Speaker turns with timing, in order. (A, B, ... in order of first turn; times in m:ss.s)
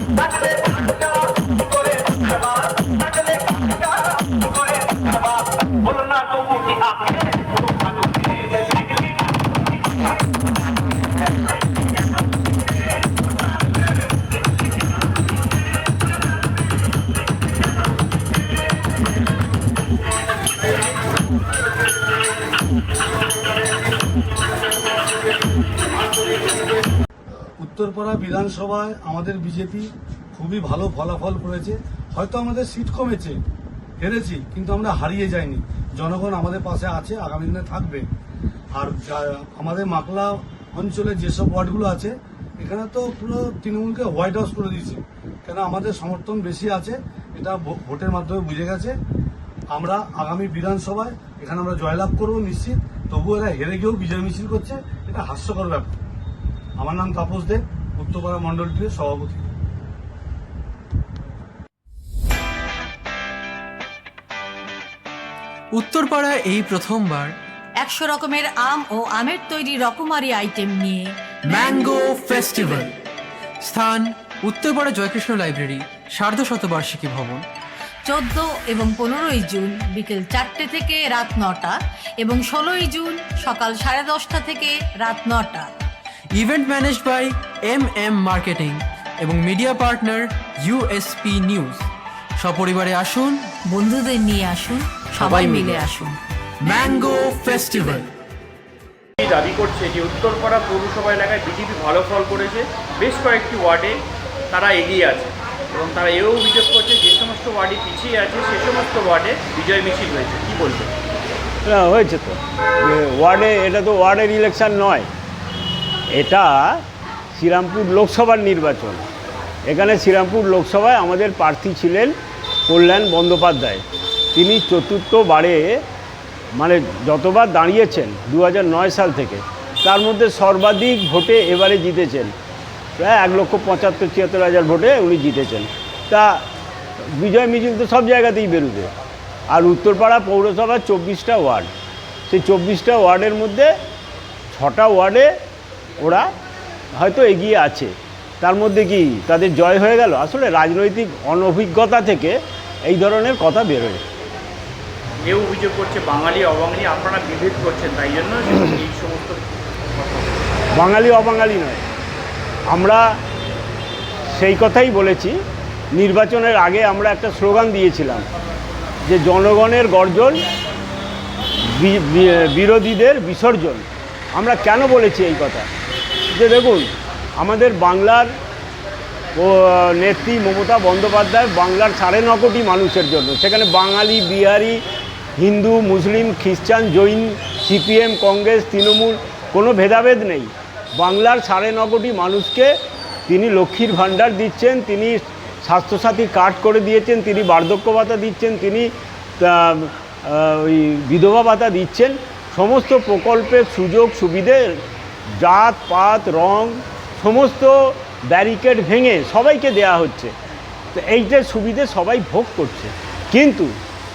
0:27.6-0:33.4 A
0:34.0-0:38.0 A
0:38.8-0:48.9 A
0:49.7-0:55.9 A
0:56.8-0:59.4 A
1:05.7-1:07.3 B
1:07.8-1:12.6 C
1:11.5-1:12.9 B
1:13.6-1:17.4 B
1:18.0-1:25.7 C
1:26.3-1:33.5 B
1:33.6-1:36.2 C
1:35.3-1:35.9 B
1:36.6-1:38.1 B
1:36.7-1:37.1 C
1:37.6-1:38.0 C
1:39.2-1:50.9 D
1:51.6-1:55.1 E
1:56.1-1:56.8 E
1:57.3-1:59.1 E
1:59.6-2:02.1 E
2:02.7-2:03.8 E
2:04.3-2:05.8 E
2:06.5-2:12.3 E
2:13.0-2:16.4 E
2:17.0-2:18.9 E
2:19.5-2:21.7 E
2:22.3-2:23.7 E
2:24.5-2:25.3 E
2:26.0-2:26.3 E
2:26.9-2:34.0 E
2:35.2-2:40.6 D
2:40.7-2:41.8 E
2:42.7-2:43.1 E
2:44.3-2:48.2 E
2:49.0-2:50.4 E
2:51.7-2:55.7 E
2:56.3-2:58.3 E
2:59.3-3:04.8 E
3:05.4-3:12.7 E
3:13.3-3:24.8 E
3:25.4-3:30.3 E
3:30.9-3:33.7 E